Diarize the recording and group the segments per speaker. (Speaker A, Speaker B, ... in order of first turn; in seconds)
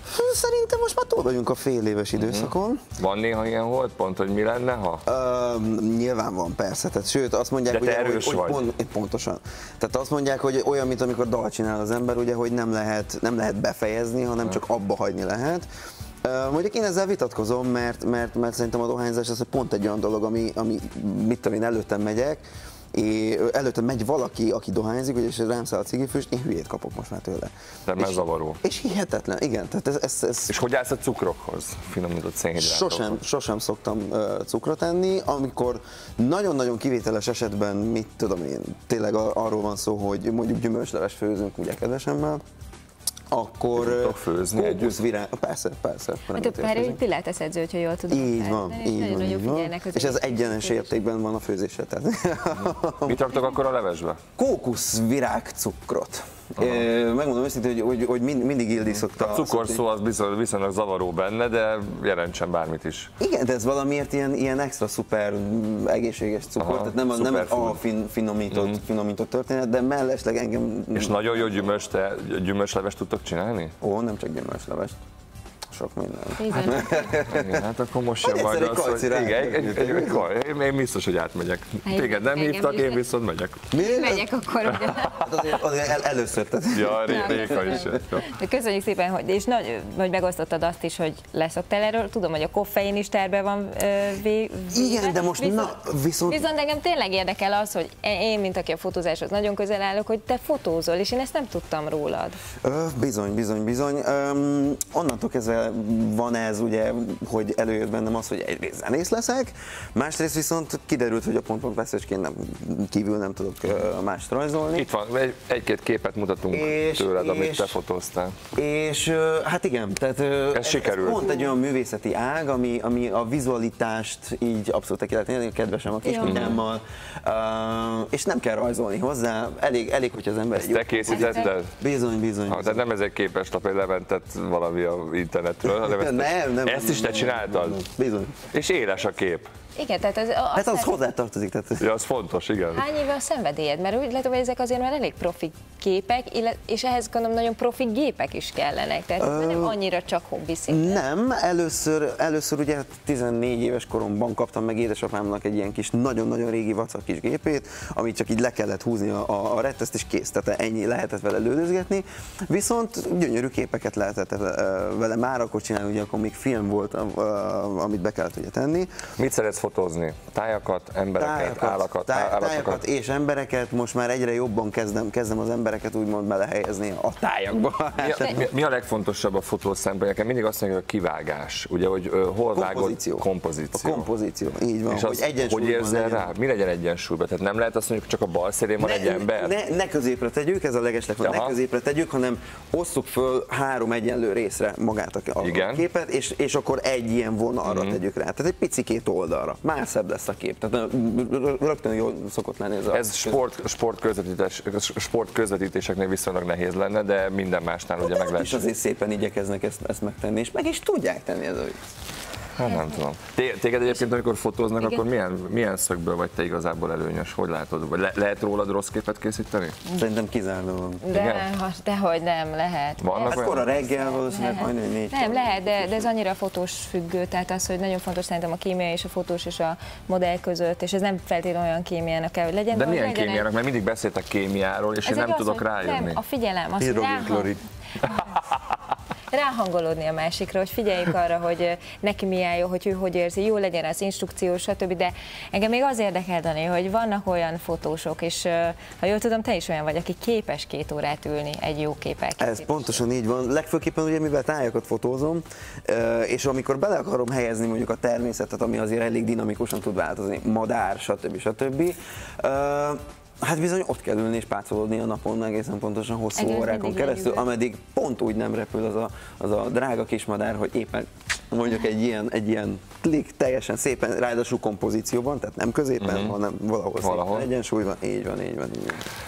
Speaker A: 0.1-2.9, 5.1-15.7, 16.2-22.4, 22.9-30.6, 32.6-42.4, 43.3-47.0, 48.1-53.2, 54.4-59.8, 63.2-71.7, 73.8-75.0, 75.7-77.7, 78.2-80.3, 83.7-88.0, 94.7-96.5, 102.6-114.9, 116.5-117.8, 118.5-132.8, 135.6-138.4, 140.5-141.9, 149.2-149.8, 150.7-168.9, 171.2-178.5, 182.5-186.3, 188.8-203.4, 208.0-211.8, 219.9-221.0, 223.3-226.1, 236.8-237.6, 252.4-279.1
Speaker B: 2.2-5.0, 7.7-8.7, 27.9-28.6, 30.5-33.2, 43.8-45.0, 53.0-54.2, 59.0-63.1, 66.6-67.8, 68.5-68.8, 70.9-73.7, 77.2-83.7, 84.9-85.5, 86.7-88.4, 114.7-118.3, 120.5-121.3, 126.2-126.6, 130.6-131.7, 132.5-137.8, 138.5-139.5, 141.8-142.9, 169.2-172.8, 178.0-184.1, 184.9-189.6, 191.2-191.6, 195.4-195.8, 197.7-198.0, 202.9-208.7, 212.6-219.8, 221.1-221.5, 223.0-223.7, 232.7-236.2, 238.0-238.7, 276.0-276.4, 277.0-277.5
Speaker C: 46.4-51.0, 76.4-77.2, 81.8-83.0, 83.7-85.4, 87.0-102.4, 126.0-126.5, 131.1-131.5, 139.8-141.0, 142.7-151.0, 221.0-233.5, 235.0-238.4, 239.3-253.0, 266.4-267.5